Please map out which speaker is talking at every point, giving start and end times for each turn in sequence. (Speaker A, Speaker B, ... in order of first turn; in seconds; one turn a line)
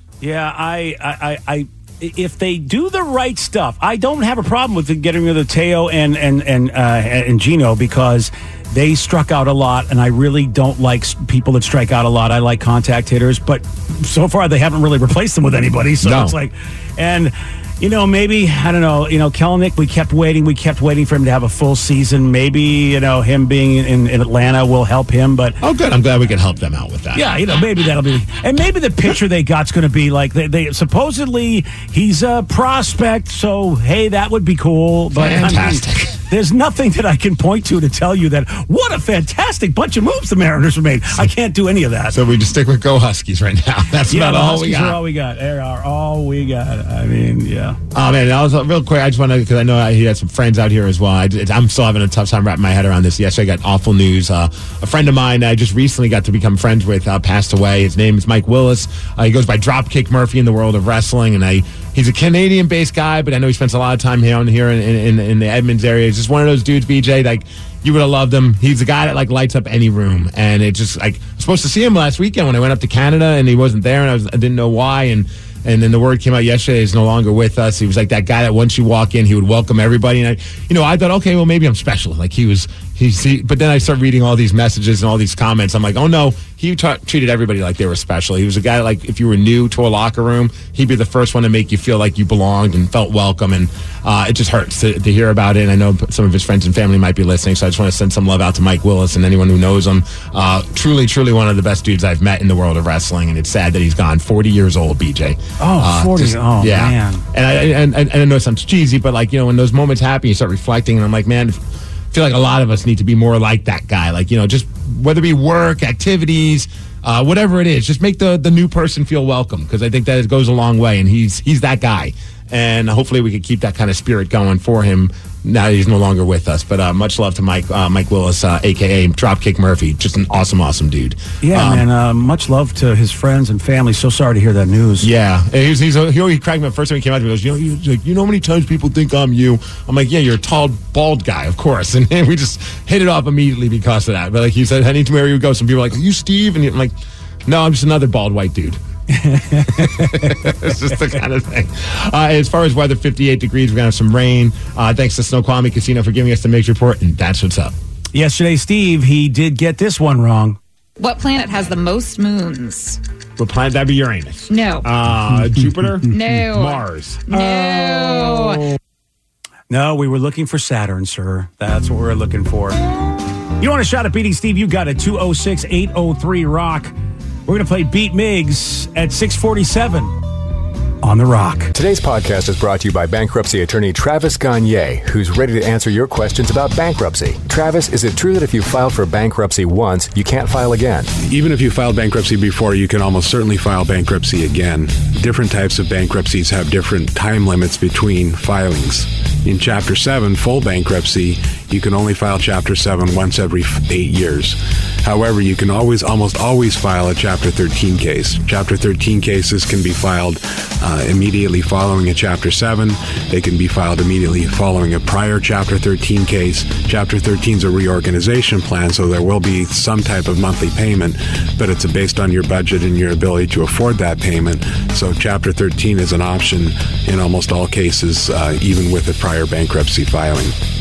Speaker A: 0.2-25.6
Speaker B: 16.0-16.4
Speaker B: 25.6-27.2
Speaker A: 27.1-42.2
Speaker B: 35.1-36.2
Speaker B: 42.1-45.0
Speaker A: 44.0-47.8
Speaker B: 47.9-131.9
Speaker A: 105.6-107.2
Speaker A: 131.4-135.1
Speaker B: 135.0-146.9
Speaker B: 147.5-148.8
Speaker A: 149.1-150.9
Speaker B: 149.7-157.7
Speaker A: 158.1-160.6
Speaker C: 161.0-163.0
Speaker B: 163.4-167.3
Speaker C: 164.5-164.9
Speaker C: 166.1-168.7
Speaker A: 167.3-168.5
Speaker A: 169.7-172.8
Speaker A: 173.6-176.9
Speaker A: 177.5-180.2
Speaker A: 181.0-181.7
Speaker D: 181.7-191.1
Speaker E: 191.2-230.5